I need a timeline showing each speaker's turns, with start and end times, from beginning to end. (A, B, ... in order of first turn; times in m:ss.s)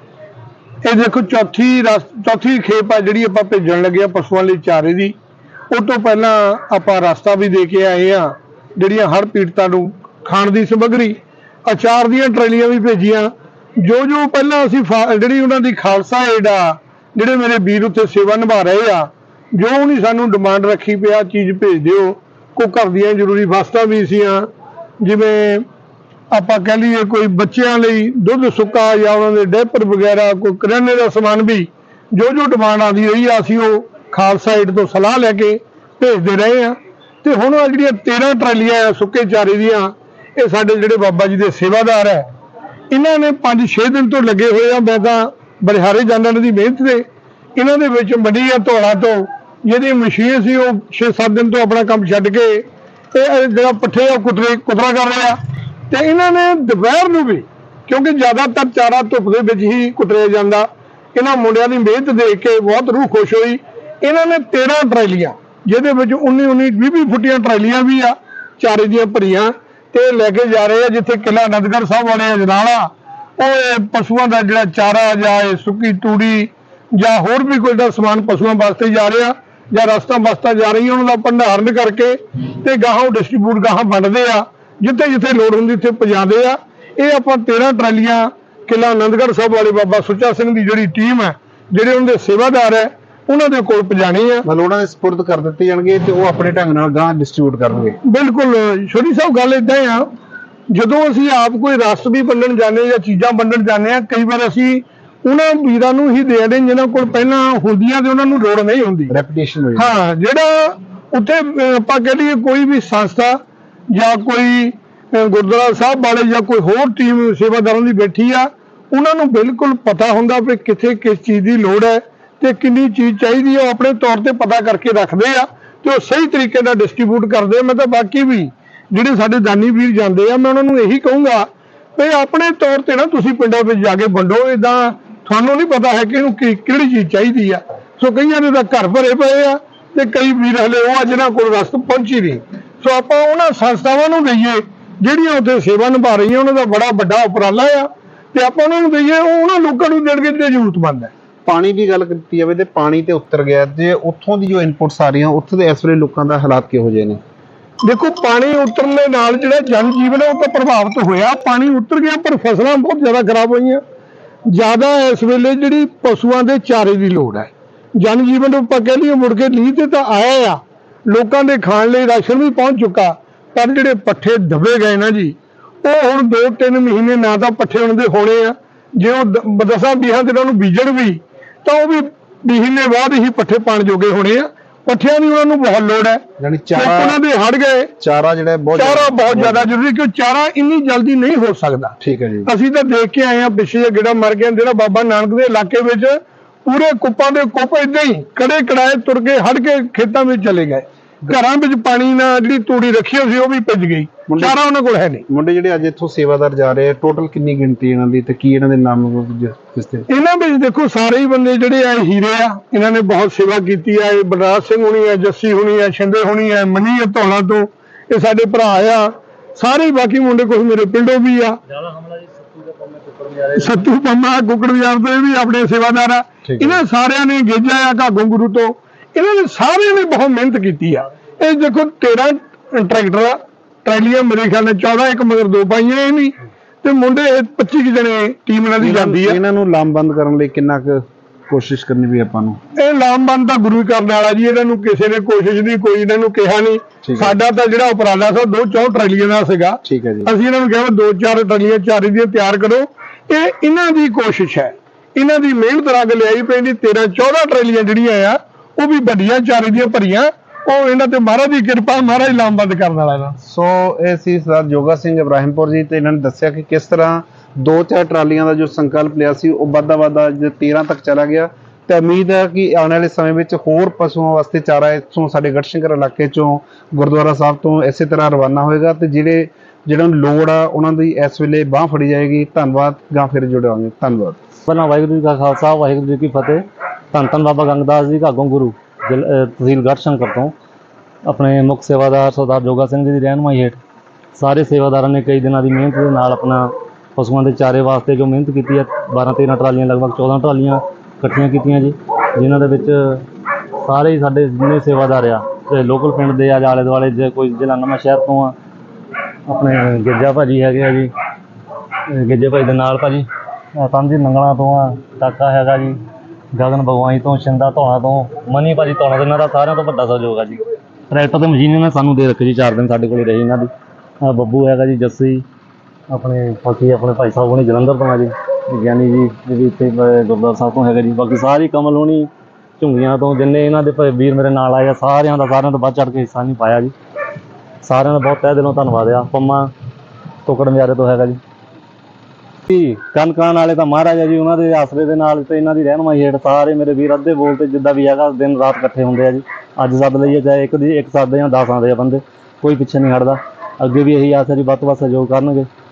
0:00.8-0:05.1 A
0:05.7-0:24.5 A
0:25.0-0:25.6 A
0:26.3-0:42.3 A
0:42.9-0:47.0 A
0:47.6-0:55.4 A
0:55.9-1:34.4 A
1:34.4-1:38.0 B
1:38.0-1:40.1 A
1:40.7-1:49.1 A
1:49.1-1:49.9 B
1:49.8-1:53.4 A
1:53.9-2:31.1 A
2:31.5-2:37.2 B
2:37.8-2:43.8 A
2:44.5-3:07.9 A
3:06.4-3:07.2 B
3:08.0-3:09.7 B
3:08.8-3:25.2 A
3:12.0-3:12.5 B
3:24.3-3:24.6 B
3:25.3-3:30.1 B
3:30.1-3:41.6 A
3:41.7-3:43.8 C
3:43.6-3:59.4 A
3:46.4-3:46.8 B
3:58.8-4:02.6 B
4:02.8-4:23.4 A
4:07.0-4:07.4 B
4:09.8-4:10.3 B
4:23.4-4:44.4 B
4:44.7-4:50.5 C
4:51.3-4:53.8 C
4:54.4-5:03.3 C
5:03.8-5:08.6 C
5:09.5-5:11.1 C
5:12.1-5:16.0 C
5:16.5-5:23.7 C
5:24.2-5:25.4 C
5:26.1-5:36.9 C
5:37.8-5:39.7 C
5:40.4-5:41.4 C
5:42.7-5:55.7 C